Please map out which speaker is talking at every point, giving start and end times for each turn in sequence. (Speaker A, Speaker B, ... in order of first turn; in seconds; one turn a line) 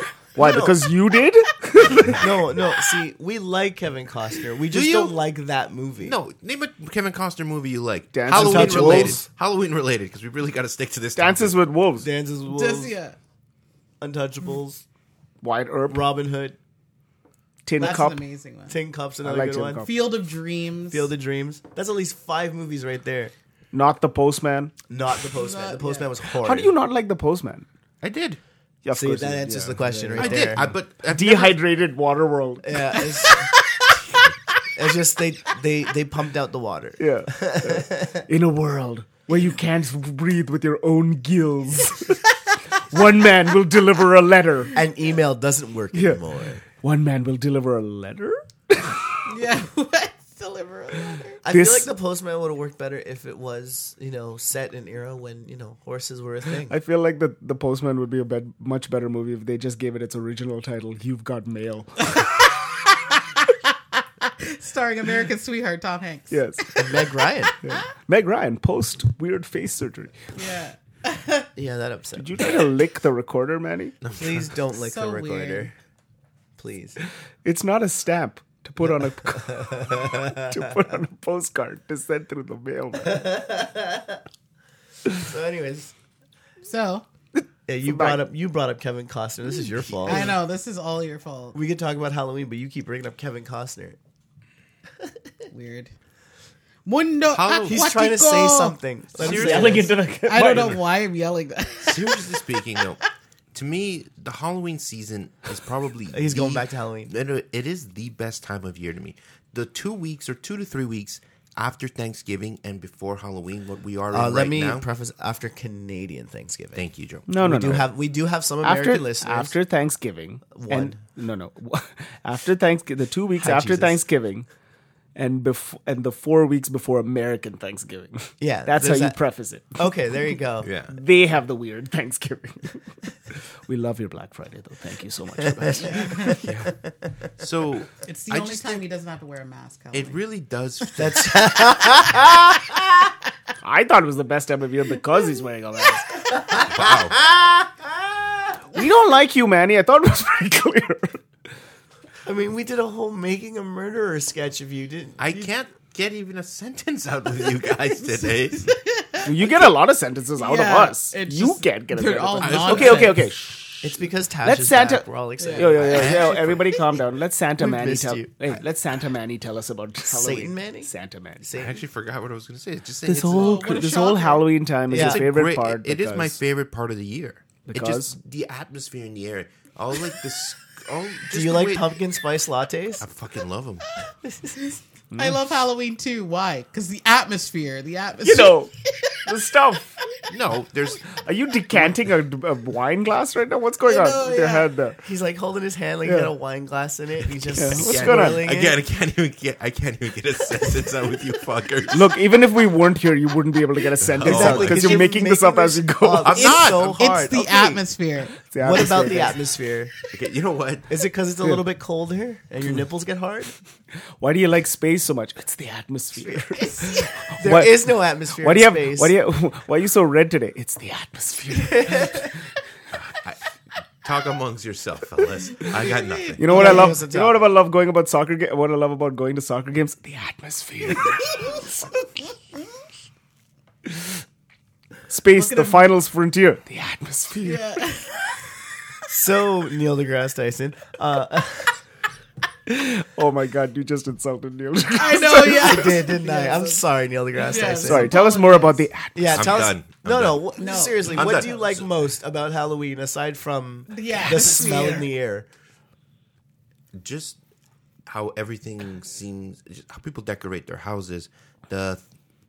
Speaker A: 0.3-2.3
Speaker B: 0.3-0.8
Speaker B: 2.1-6.2
Speaker C: 4.7-5.2
Speaker C: 6.0-11.6
Speaker A: 8.1-9.2
Speaker B: 8.3-9.3
Speaker A: 11.2-12.1
Speaker B: 12.0-12.9
Speaker D: 12.5-13.2
Speaker B: 14.0-14.8
Speaker A: 15.4-16.0
Speaker B: 15.9-16.6
Speaker A: 17.6-18.2
Speaker D: 17.8-18.8
Speaker B: 18.7-19.9
Speaker A: 19.2-19.9
Speaker D: 19.8-21.1
Speaker B: 20.9-23.3
Speaker A: 23.7-24.7
Speaker B: 24.9-26.7
Speaker D: 25.3-26.1
Speaker A: 26.4-27.6
Speaker C: 28.0-28.4
Speaker A: 28.8-33.1
Speaker B: 28.9-30.7
Speaker C: 30.2-31.6
Speaker B: 32.6-33.5
Speaker B: 34.7-38.3
Speaker A: 37.0-42.2
Speaker A: 42.8-44.8
Speaker B: 44.7-46.6
Speaker A: 45.9-46.2
Speaker A: 46.8-49.0
Speaker D: 49.2-51.4
Speaker B: 51.4-56.8
Speaker A: 51.5-51.9
Speaker A: 56.7-62.2
Speaker D: 62.1-67.8
Speaker A: 66.3-66.8
Speaker B: 66.7-67.5
Speaker A: 67.6-70.2
Speaker D: 70.3-71.5
Speaker B: 71.5-72.6
Speaker A: 72.2-74.0
Speaker C: 74.0-74.4
Speaker B: 74.2-75.7
Speaker D: 74.8-75.7
Speaker B: 76.6-77.0
Speaker A: 77.4-83.3
Speaker B: 78.9-80.9
Speaker B: 83.0-84.2
Speaker B: 85.2-85.9
Speaker D: 86.6-87.0
Speaker A: 87.3-88.2
Speaker B: 87.7-90.3
Speaker D: 90.0-91.6
Speaker B: 91.5-94.0
Speaker D: 95.5-95.9
Speaker D: 96.8-98.8
Speaker C: 97.2-97.8
Speaker B: 97.6-99.9
Speaker C: 99.2-99.9
Speaker A: 99.2-100.8
Speaker D: 100.2-102.4
Speaker C: 101.8-114.8
Speaker B: 106.1-107.1
Speaker B: 114.1-116.8
Speaker C: 116.7-117.3
Speaker A: 117.3-117.9
Speaker B: 117.4-119.6
Speaker A: 118.6-124.5
Speaker B: 120.5-121.0
Speaker B: 123.4-124.0
Speaker A: 125.1-129.9
Speaker B: 128.4-129.2
Speaker B: 129.8-130.7
Speaker C: 130.6-130.9
Speaker A: 130.9-136.4
Speaker B: 135.4-137.1
Speaker D: 135.8-136.4
Speaker C: 136.4-136.7
Speaker C: 137.4-138.8
Speaker D: 138.0-140.2
Speaker C: 139.9-141.4
Speaker B: 141.0-143.0
Speaker A: 143.6-146.2
Speaker B: 146.3-148.6
Speaker C: 146.7-147.2
Speaker A: 148.7-151.2
Speaker B: 152.2-155.5
Speaker C: 155.2-158.7
Speaker D: 158.5-159.7
Speaker A: 159.2-171.5
Speaker D: 160.4-163.2
Speaker C: 162.4-163.2
Speaker B: 163.8-166.5
Speaker D: 165.4-165.7
Speaker C: 165.8-166.7
Speaker B: 167.6-168.6
Speaker B: 170.1-171.8
Speaker C: 171.5-173.8
Speaker A: 173.0-176.4
Speaker D: 173.3-174.5
Speaker B: 174.9-175.3
Speaker C: 174.9-182.0
Speaker A: 177.7-178.1
Speaker B: 181.3-183.1
Speaker C: 183.0-183.8
Speaker B: 184.2-184.8
Speaker A: 185.1-185.4
Speaker D: 185.1-189.2
Speaker A: 188.2-188.7
Speaker A: 189.2-190.0
Speaker C: 190.3-191.2
Speaker A: 191.1-195.0
Speaker D: 193.8-194.7
Speaker B: 195.0-198.8
Speaker A: 196.0-196.3
Speaker A: 197.6-198.4
Speaker C: 197.7-202.1
Speaker A: 201.9-206.5
Speaker C: 204.0-205.1
Speaker B: 204.2-207.8
Speaker C: 206.2-207.0
Speaker D: 206.5-208.3
Speaker A: 208.5-209.3
Speaker B: 208.6-209.9
Speaker C: 210.1-210.9
Speaker B: 210.9-213.5
Speaker A: 214.2-222.3
Speaker D: 216.5-217.2
Speaker B: 217.3-219.1
Speaker B: 221.5-222.3
Speaker C: 222.9-223.4
Speaker C: 224.0-226.7
Speaker D: 225.6-226.9
Speaker A: 226.4-231.7
Speaker B: 226.4-227.5
Speaker A: 235.1-237.7
Speaker D: 235.3-235.9
Speaker D: 237.4-238.5
Speaker B: 239.1-241.8
Speaker A: 242.7-246.0
Speaker D: 244.9-246.8
Speaker B: 245.3-248.2
Speaker D: 247.3-248.8
Speaker A: 247.8-249.6
Speaker B: 249.1-255.5
Speaker C: 249.3-250.5
Speaker D: 250.6-251.6
Speaker C: 251.1-251.8
Speaker D: 253.9-255.1
Speaker C: 256.9-257.4
Speaker C: 258.1-262.0